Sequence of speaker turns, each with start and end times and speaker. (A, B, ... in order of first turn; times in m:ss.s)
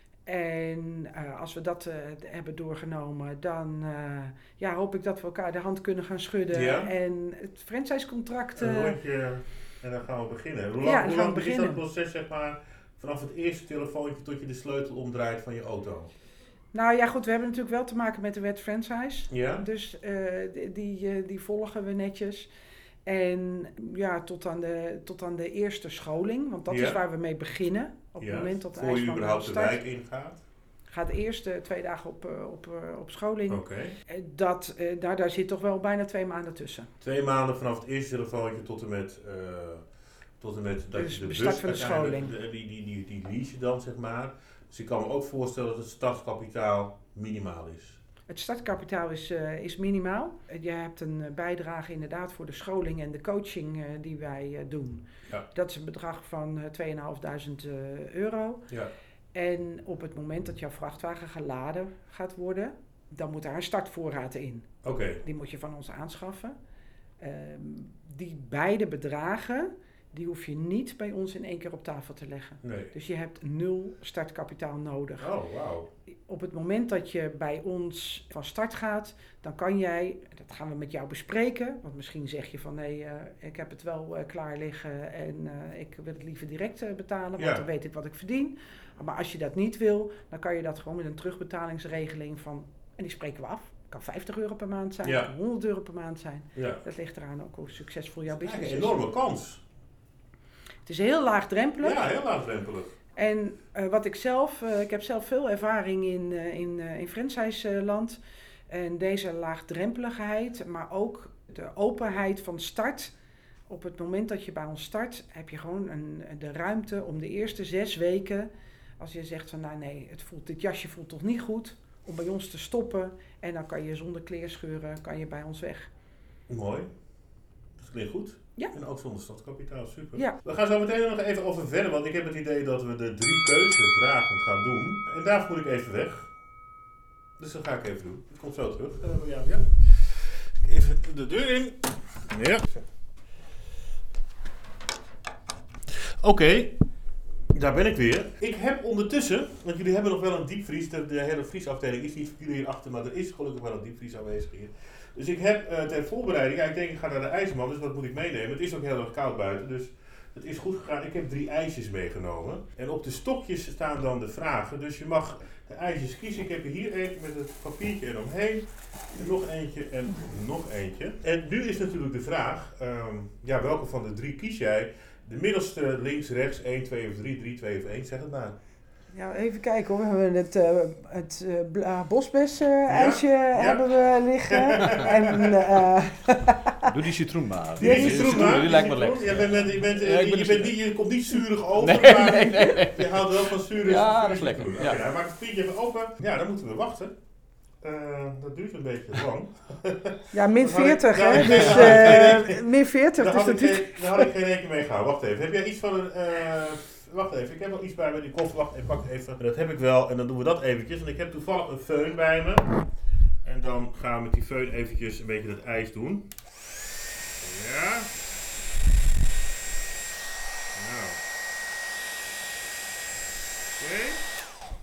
0:00.3-0:09.0 A
0:06.5-0:06.9 B
0:08.6-0:16.1 B
0:10.8-0:11.8 A
0:16.7-0:22.5 A
0:19.3-0:19.6 B
0:23.1-0:29.8 A
0:26.7-0:27.0 B
0:28.2-0:30.4 B
0:30.9-0:36.9 A
0:33.5-0:33.9 B
0:37.0-0:39.8 B
0:40.4-0:48.0 B
0:40.9-0:42.3 A
0:48.3-0:58.7 A
0:59.3-1:04.7 A
1:04.8-1:05.2 B
1:05.2-1:06.6 A
1:07.2-1:15.3 A
1:12.6-1:12.9 B
1:15.2-1:15.9 B
1:16.3-1:39.0 A
1:27.4-1:27.6 B
1:35.0-1:35.3 B
1:36.6-1:36.8 B
1:38.3-1:39.6 B
1:40.8-1:42.1 A
1:41.8-1:42.9 B
1:43.2-1:53.2 A
1:53.7-2:05.9 A
2:06.5-2:06.9 B
2:07.8-2:16.3 B
2:17.4-2:22.8 B
2:25.9-2:26.7 B
2:27.5-2:58.6 B
2:59.1-3:06.9 A
3:02.9-3:03.9 B
3:04.4-3:05.8 B
3:06.9-3:10.8 C
3:07.8-3:17.1 B
3:07.8-3:08.5 A
3:11.8-3:15.0 C
3:17.8-3:22.6 B
3:20.3-3:24.3 A
3:21.5-3:21.9 C
3:23.2-3:32.8 B
3:33.4-3:36.4 B
3:37.4-3:38.2 B
3:40.8-3:41.2 B
3:43.8-3:44.3 B